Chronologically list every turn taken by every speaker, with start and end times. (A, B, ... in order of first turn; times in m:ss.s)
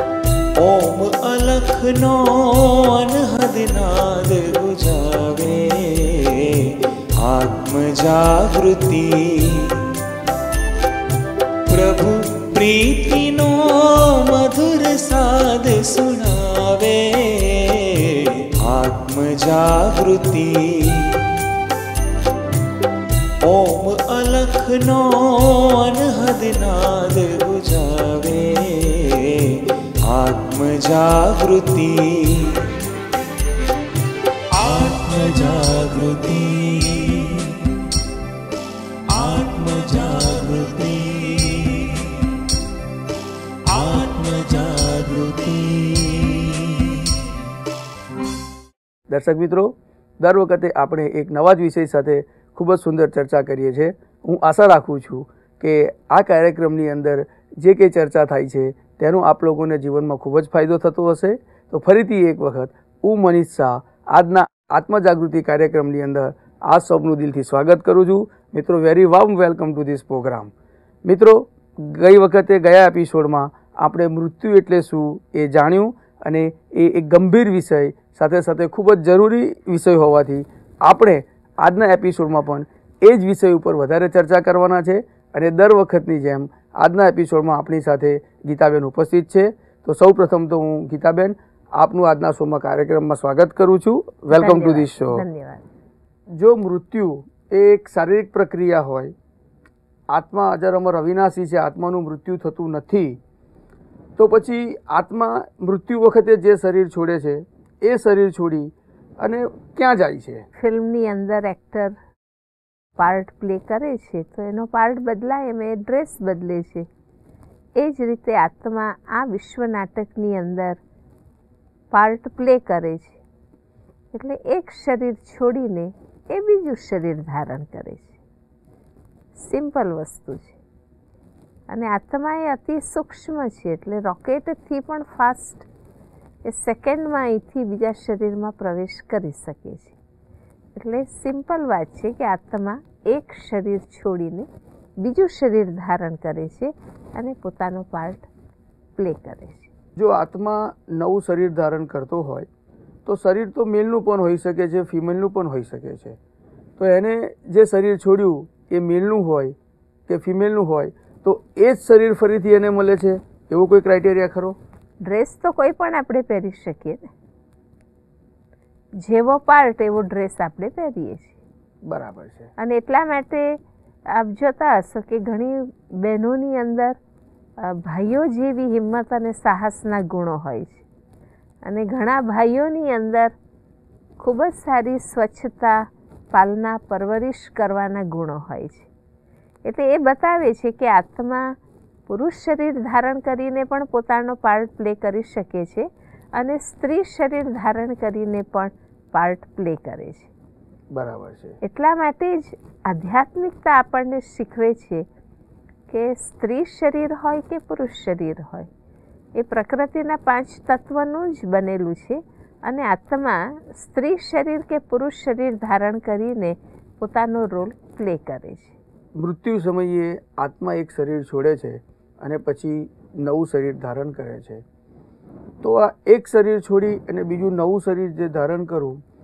0:00.6-0:09.9 A
0:11.7-0:21.2 A
0:23.4-0:32.7 A
0:34.5-0:37.7 A
0:39.1-0:42.2 A
0:43.6-0:47.2 A
0:49.1-1:10.5 B
1:11.0-1:35.2 B
1:34.3-1:35.6 C
1:36.3-1:39.1 B
1:40.1-1:43.2 B
1:44.2-1:50.4 B
1:50.6-1:52.0 C
1:53.0-1:56.9 C
1:57.8-2:00.8 C
2:01.9-2:03.2 C
2:04.1-2:08.2 C
2:09.4-2:10.6 C
2:11.7-2:15.7 C
2:16.4-2:20.0 C
2:20.8-2:24.5 C
2:25.0-2:28.3 C
2:29.0-2:29.7 C
2:30.0-2:32.5 B
2:33.0-2:36.2 B
2:36.8-2:39.6 B
2:40.1-2:44.6 B
2:45.0-2:47.1 C
2:49.0-2:51.4 C
2:51.8-2:52.5 B
2:52.6-2:53.6 C
2:54.1-2:57.0 C
2:57.6-3:00.8 C
3:01.6-3:03.3 C
3:04.2-3:08.9 C
3:09.6-3:11.5 C
3:12.1-3:20.3 C
3:20.9-3:21.6 B
3:21.6-3:25.0 C
3:25.9-3:28.7 C
3:29.4-3:38.8 C
3:39.2-3:44.6 B
3:45.6-3:49.0 B